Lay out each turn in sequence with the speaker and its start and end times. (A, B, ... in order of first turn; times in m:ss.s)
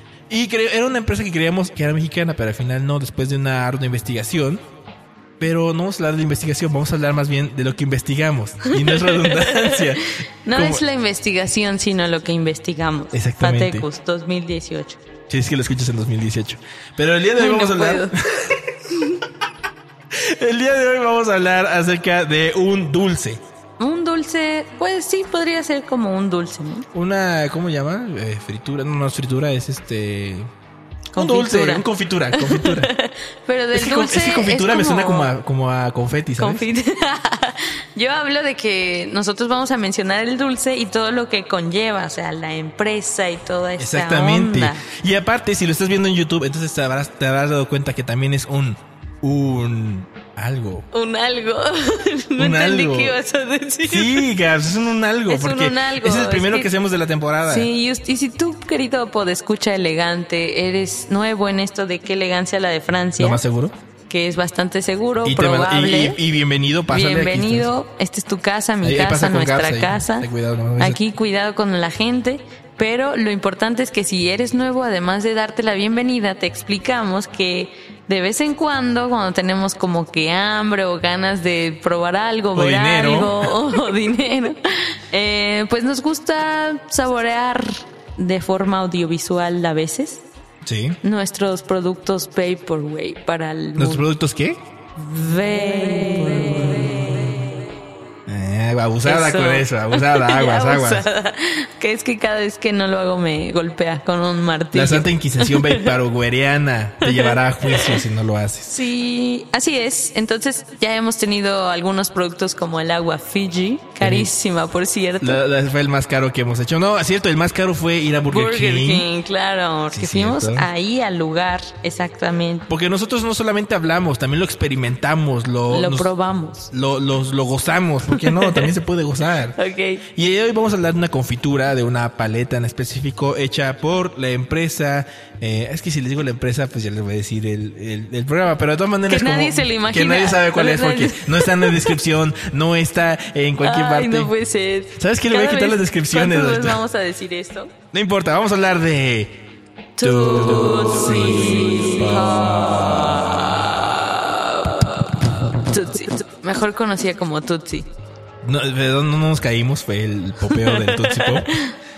0:00.3-0:04.6 A
0:05.4-0:10.8 A
0:08.7-0:15.0 B
0:13.1-0:13.8 A
0:15.3-0:18.7 A
0:17.4-0:18.1 B
0:20.1-0:23.4 A
0:23.8-0:26.9 B
0:26.9-0:30.5 A
0:31.1-0:35.3 B
0:31.2-0:32.9 A
0:33.7-0:36.6 A
0:36.4-0:44.8 B
0:43.8-0:50.8 A
0:50.9-0:54.3 B
0:52.4-0:53.2 A
0:53.8-0:57.7 A
0:55.3-0:56.7 B
0:57.4-1:03.4 B
1:03.2-1:03.8 A
1:04.1-1:06.2 B
1:05.2-1:07.7 A
1:06.9-1:10.3 B
1:08.8-1:11.0 A
1:10.8-1:30.3 B
1:22.5-1:23.5 A
1:30.6-1:31.0 A
1:31.0-1:34.1 B
1:33.8-1:34.6 A
1:35.0-1:37.6 B
1:38.3-1:41.1 A
1:39.0-1:45.9 B
1:44.7-1:48.7 A
1:47.0-1:48.0 B
1:48.7-1:55.4 B
1:54.0-1:54.3 A
1:55.2-1:59.1 A
1:58.3-2:02.7 B
1:59.9-2:00.7 A
2:02.7-2:06.1 A
2:05.7-2:06.7 B
2:06.7-2:24.3 A
2:08.1-2:08.7 B
2:09.6-2:10.0 B
2:19.1-2:22.0 B
2:23.6-2:27.7 B
2:25.0-2:26.8 A
2:27.9-2:29.4 A
2:30.0-2:37.9 B
2:30.0-2:33.5 A
2:38.4-2:41.6 A
2:40.5-2:41.7 B